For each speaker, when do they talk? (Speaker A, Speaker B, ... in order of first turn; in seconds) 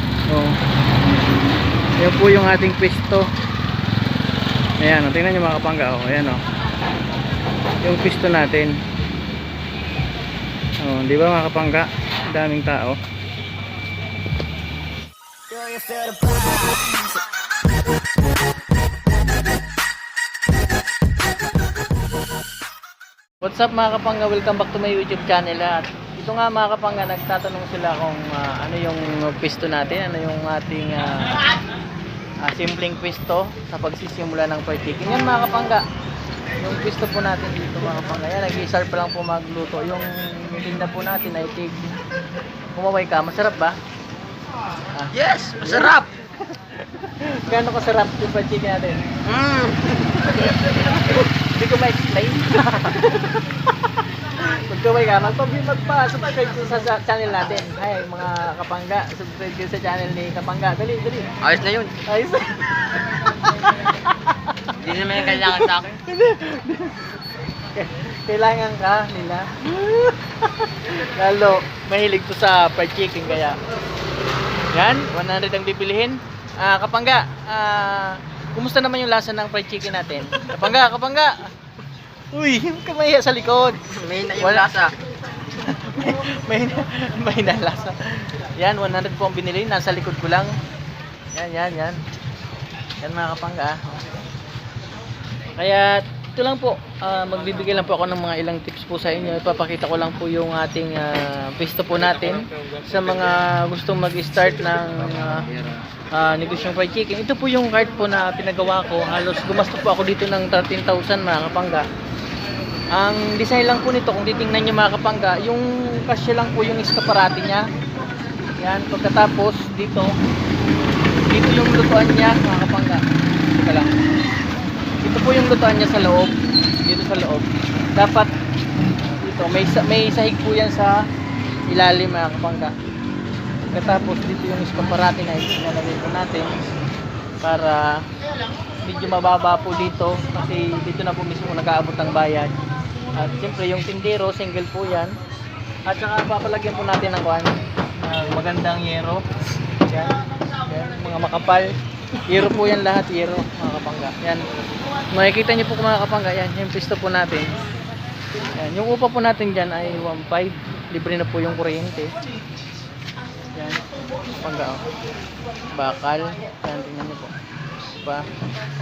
Speaker A: 0.3-0.6, 2.0-3.3, 4.8-6.4, 7.8-8.8, 10.8-13.0, 23.4-31.6, 32.4-35.9, 36.6-42.0, 42.7-43.8, 44.9-49.2, 49.9-61.4, 62.0-73.6, 74.7-81.5, 82.3-84.9, 85.4-90.5, 91.3-92.0, 93.0-94.2, 95.6-111.9, 112.9-117.7, 118.6-120.2, 121.2-124.0, 125.0-128.3, 129.0-131.1, 131.7-132.7, 133.7-136.5, 137.4-138.1, 138.8-145.2, 145.9-151.8, 152.3-154.4, 155.1-157.5, 158.5-162.1, 163.5-164.9, 165.8-167.3
Speaker B: 15.6-16.8, 45.1-46.1, 49.3-50.0, 61.4-62.0, 64.8-65.9, 83.9-84.9